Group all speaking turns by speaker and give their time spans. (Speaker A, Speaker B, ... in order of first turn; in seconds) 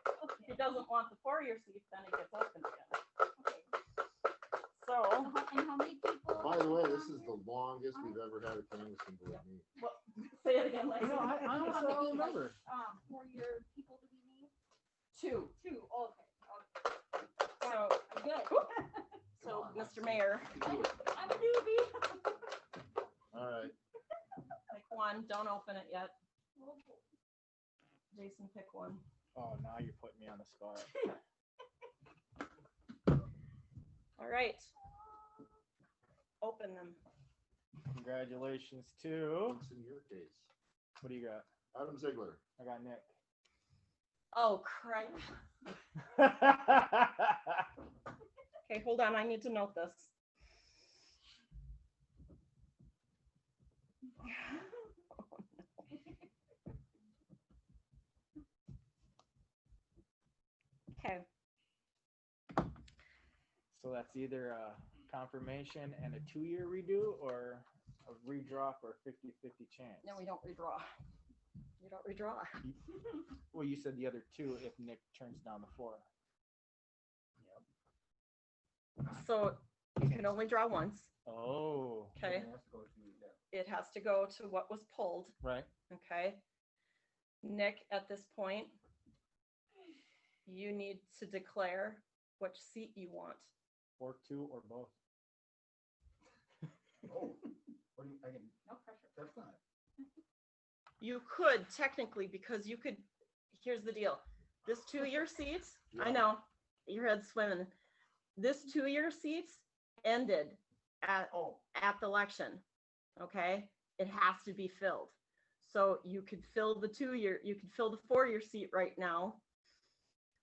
Speaker A: 0.2-0.5, 3.4-3.7, 5.2-8.2, 11.3-14.5, 15.5-16.7, 17.6-18.9, 20.5-22.4, 26.6-27.0, 98.7-99.1
Speaker B: 0.4-3.0, 4.8-5.3, 9.8-11.8, 15.1-15.5, 17.6-18.8, 19.4-20.7, 24.7-26.1, 28.1-29.0, 34.2-34.7, 36.4-37.0, 44.3-45.2, 48.6-50.1, 54.2-55.6, 60.9-61.3, 70.0-70.9, 71.8-72.6, 79.0-81.1, 82.2-82.5, 83.5-85.3, 85.9-86.4, 87.4-88.8, 90.5-93.5, 101.0-107.7, 108.3-112.6, 113.2-119.4
Speaker C: 6.3-9.7, 19.4-20.7, 23.3-23.7, 39.5-40.5, 41.7-42.4, 105.9-106.3
Speaker D: 11.0-12.6, 29.3-30.9, 37.9-39.6, 41.0-41.5, 42.6-43.1, 46.1-47.6, 63.7-70.2, 73.5-76.0, 81.2-82.1, 85.4-85.7, 94.0-94.9
Speaker E: 82.2-83.4, 97.1-98.6, 99.1-99.6, 111.3-111.6